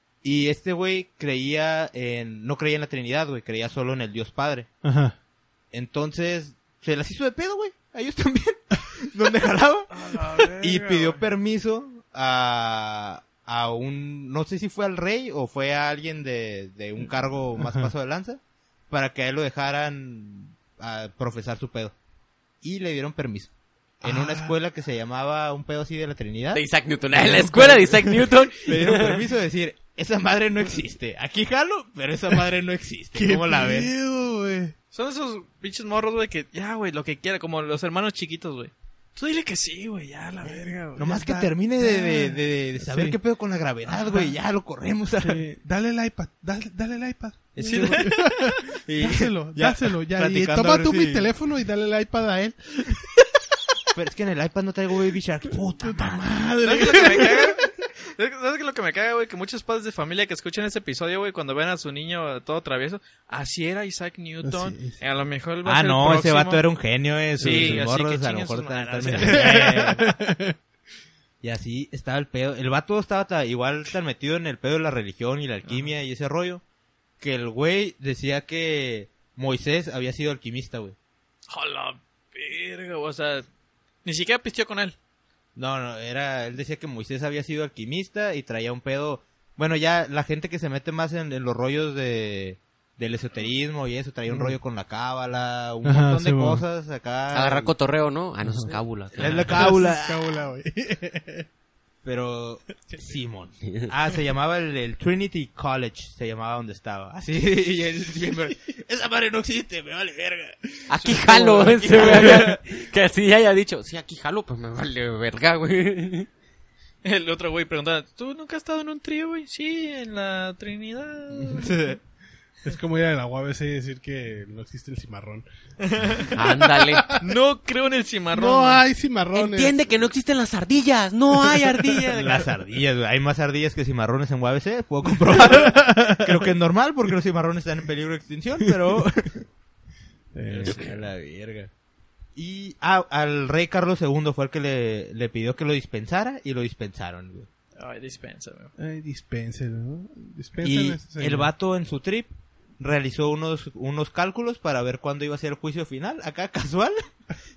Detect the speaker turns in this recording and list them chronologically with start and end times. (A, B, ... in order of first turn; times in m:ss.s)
0:00.2-0:04.7 A
0:04.8-0:05.1 B
0:05.7-0:21.9 A
0:09.9-0:11.2 C
0:17.6-0:17.9 B
0:22.6-0:33.9 A
0:24.0-0:24.5 B
0:26.5-0:29.2 D
0:33.1-0:34.7 B
0:34.9-0:41.0 C
0:40.4-0:43.2 B
0:41.0-0:45.4 A
0:43.9-0:44.3 B
0:45.2-0:53.2 B
0:47.6-0:48.1 A
0:47.7-0:48.2 C
0:48.8-0:51.3 A
0:53.9-0:56.3 A
0:55.8-0:57.7 B
0:56.6-1:06.6 C
1:04.4-1:05.0 B
1:05.6-1:10.0 A
1:07.4-1:07.8 B
1:07.4-1:09.9 C
1:09.0-1:10.6 B
1:11.4-1:16.6 A
1:17.2-1:20.9 A
1:21.5-1:23.4 C
1:24.0-1:25.0 C
1:25.6-1:37.7 A
1:34.3-1:34.6 B
1:35.8-1:36.6 B
1:37.3-1:39.7 D
1:38.4-1:41.5 B
1:39.2-1:40.2 A
1:42.0-1:52.6 A
1:50.9-1:56.3 D
1:57.0-2:02.0 C
2:01.6-2:02.0 A
2:02.6-2:05.4 B
2:05.8-2:06.4 C
2:06.2-2:07.2 B
2:06.3-2:07.2 D
2:07.1-2:08.8 C
2:08.3-2:09.7 B
2:09.3-2:12.5 D
2:11.5-2:11.8 B
2:12.1-2:19.4 A
2:15.4-2:16.3 B
2:20.3-2:20.9 B
2:20.5-2:21.7 A
2:20.5-2:21.0 C
2:22.4-2:27.5 A
2:27.8-2:28.7 C
2:28.8-2:31.5 B
2:30.6-2:37.0 A